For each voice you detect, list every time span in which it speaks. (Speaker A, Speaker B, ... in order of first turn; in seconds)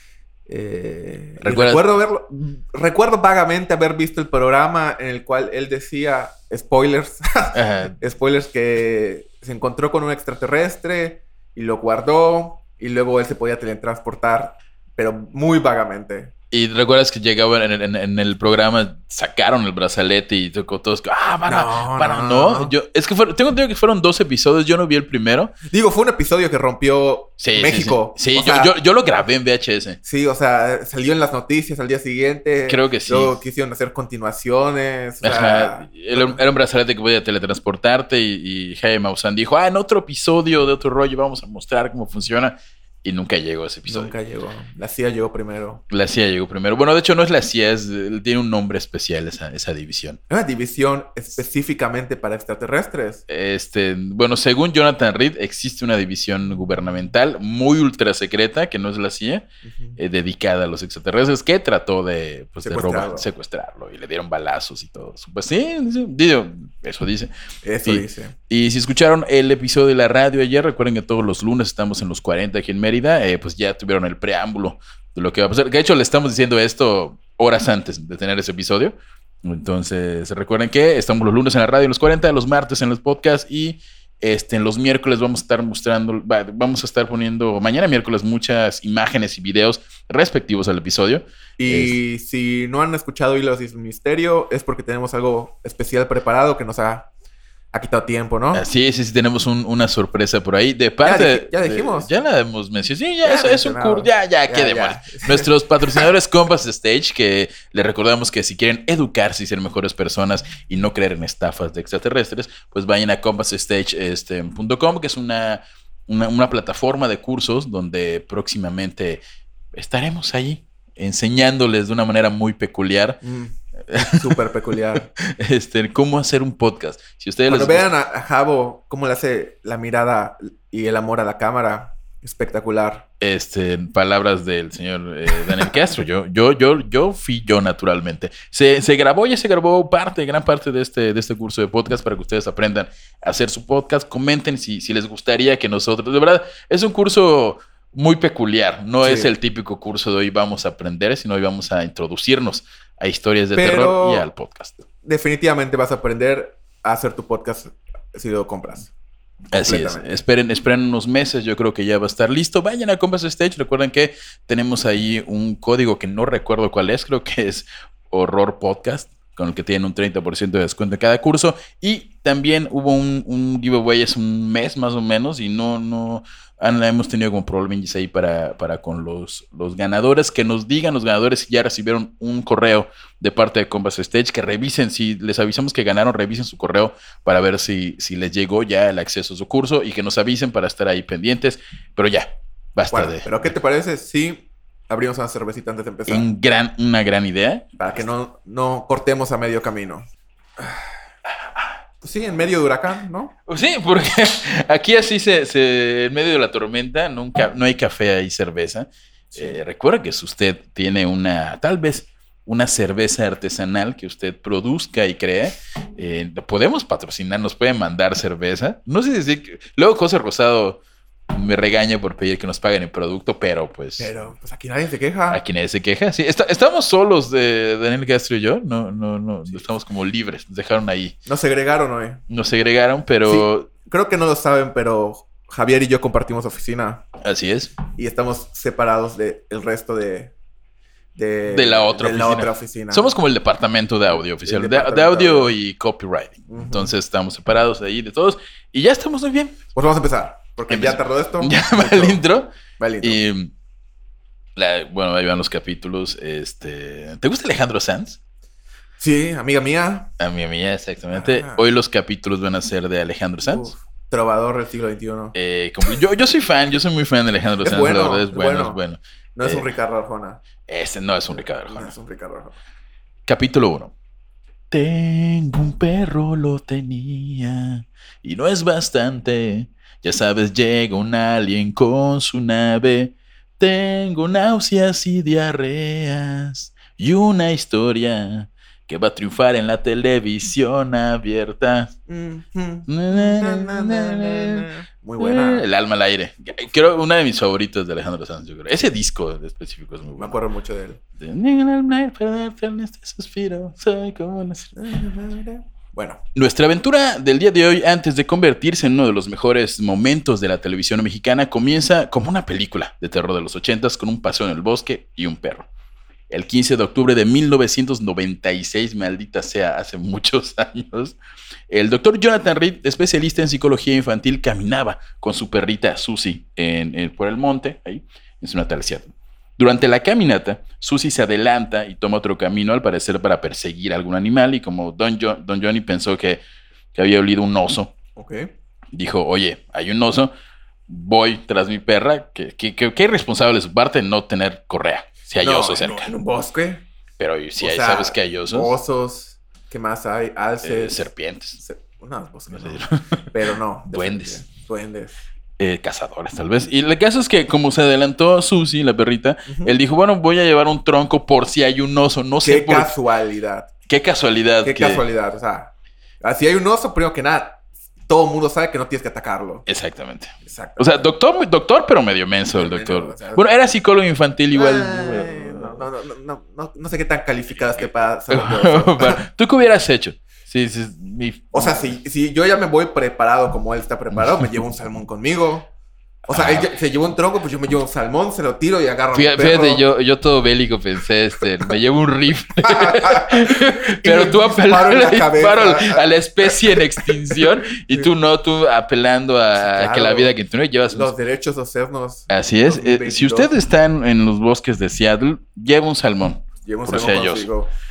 Speaker A: 0.5-16.3, 21.5-22.7, 25.7-28.7, 30.0-36.4, 43.9-45.8, 50.3-53.2, 59.7-60.0, 62.6-63.3, 67.6-68.3, 91.6-97.1, 97.7-98.6, 101.0-102.1, 103.2-106.1, 123.2-125.1, 127.5-133.1, 149.0-149.3, 153.5-154.3, 155.0-158.9, 159.5-160.1, 192.9-196.3, 197.8-200.8, 202.0-203.3, 224.0-225.4, 231.3-232.2, 233.2-237.0, 237.9-240.3, 241.2-243.1, 244.1-245.5, 246.5-246.9, 249.7-252.2, 252.8-253.2, 259.0-260.1, 261.1-261.6, 263.4-265.3, 267.6-268.8, 269.4-270.4, 271.6-272.6, 292.1-295.6, 300.2-301.0, 304.7-306.2, 338.1-338.5, 345.4-346.8, 347.6-351.0, 351.6-355.2, 359.5-359.8, 362.4-363.7, 364.6-365.7, 366.2-369.6, 370.4-371.1, 372.5-373.4, 374.5-379.2, 381.5-385.7, 386.2-389.8, 392.6-398.1, 399.6-400.3, 400.9-403.5, 406.6-407.7
Speaker B: 1.4-1.9, 7.5-8.0, 16.5-25.5, 27.4-30.0, 32.7-33.4, 35.2-44.1, 45.9-50.2, 53.3-59.5, 60.0-67.3, 67.8-92.0, 98.5-119.2, 119.7-123.2, 123.9-124.4, 125.2-127.9, 133.2-154.8, 159.5-193.3, 196.1-198.0, 203.5-224.1, 225.3-231.2, 232.3-233.7, 237.2-237.7, 241.5-249.6, 250.7-253.5, 254.6-258.2, 260.2-263.7, 265.3-269.6, 270.7-271.9, 273.2-273.9, 274.7-291.9, 292.9-300.4, 301.2-304.7, 306.3-315.7, 316.3-321.1, 321.7-336.4, 336.9-337.9, 338.9-340.3, 340.9-346.1, 347.2-348.7, 350.6-351.6, 352.5-353.3, 353.9-354.4, 355.6-362.9, 363.9-365.0, 369.7-375.8, 378.3-381.8, 386.3-386.7, 389.1-401.1, 402.3-407.5